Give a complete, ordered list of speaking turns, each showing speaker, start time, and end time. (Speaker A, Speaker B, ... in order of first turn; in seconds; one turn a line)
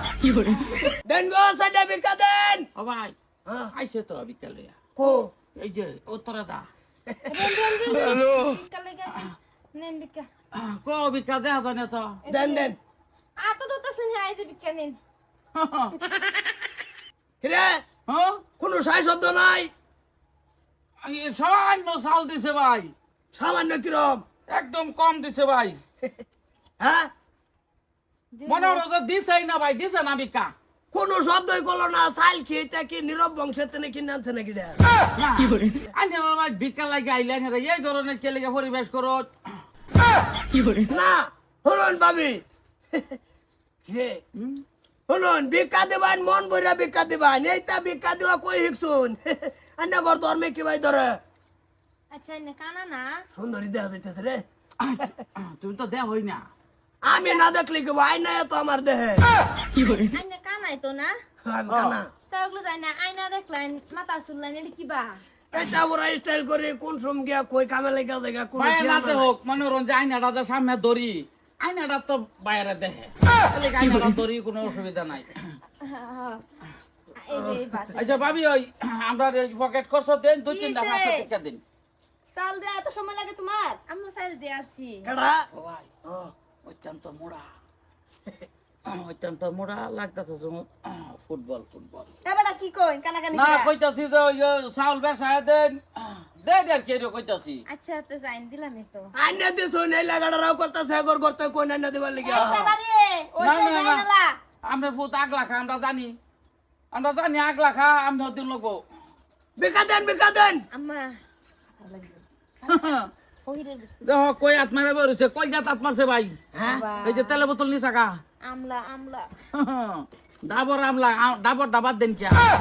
Speaker A: 0.4-0.8
Speaker B: 1.1-2.7
Speaker A: 2.8-3.1
Speaker B: 3.5-3.7
Speaker A: 3.7-4.7
Speaker B: 5.0-5.3
Speaker A: 5.5-6.7
Speaker C: 7.3-10.3
Speaker A: 7.9-8.5
Speaker A: 10.5-12.2
Speaker C: 12.2-12.7
Speaker B: 12.3-12.8
Speaker C: 13.4-15.0
Speaker A: 15.6-15.9
Speaker B: 17.4-17.8
Speaker A: 18.1-18.4
Speaker B: 18.6-19.7
Speaker A: 21.0-22.9
Speaker B: 23.3-24.2
Speaker A: 24.5-25.8
Speaker B: 26.8-27.1
Speaker C: 28.3-28.8
Speaker A: 28.5-30.5
Speaker B: 30.9-34.8
Speaker A: 35.1-39.3
Speaker B: 40.8-42.4
Speaker B: 42.9-43.2
Speaker B: 43.8-44.2
Speaker A: 44.4-44.6
Speaker B: 45.1-51.2
Speaker C: 52.1-53.2
Speaker B: 53.4-54.4
Speaker A: 54.8-56.5
Speaker B: 57.0-59.2
Speaker C: 57.1-57.4
Speaker C: 59.7-61.1
Speaker B: 61.5-62.1
Speaker A: 61.7-62.0
Speaker C: 62.3-65.2
Speaker B: 65.5-69.3
Speaker A: 68.5-75.5
Speaker C: 75.8-76.4
Speaker C: 77.2-78.3
Speaker B: 77.3-77.9
Speaker A: 77.9-81.6
Speaker C: 80.5-81.2
Speaker D: 82.3-83.8
Speaker C: 83.8-85.1
Speaker B: 85.0-85.5
Speaker A: 85.5-85.9
Speaker B: 86.0-86.3
Speaker A: 86.6-87.5
Speaker A: 88.8-92.1
Speaker D: 92.3-93.6
Speaker A: 93.3-97.6
Speaker C: 97.7-99.1
Speaker B: 99.1-102.6
Speaker C: 102.2-104.3
Speaker A: 102.3-102.8
Speaker D: 102.9-103.3
Speaker A: 103.4-104.1
Speaker A: 104.6-106.2
Speaker A: 106.9-108.8
Speaker B: 109.6-110.6
Speaker C: 110.7-111.1
Speaker C: 111.8-113.9
Speaker A: 112.7-113.1
Speaker A: 114.0-116.4
Speaker B: 116.5-116.8
Speaker C: 116.7-117.4
Speaker A: 117.0-118.2
Speaker C: 118.4-119.3
Speaker A: 119.5-122.5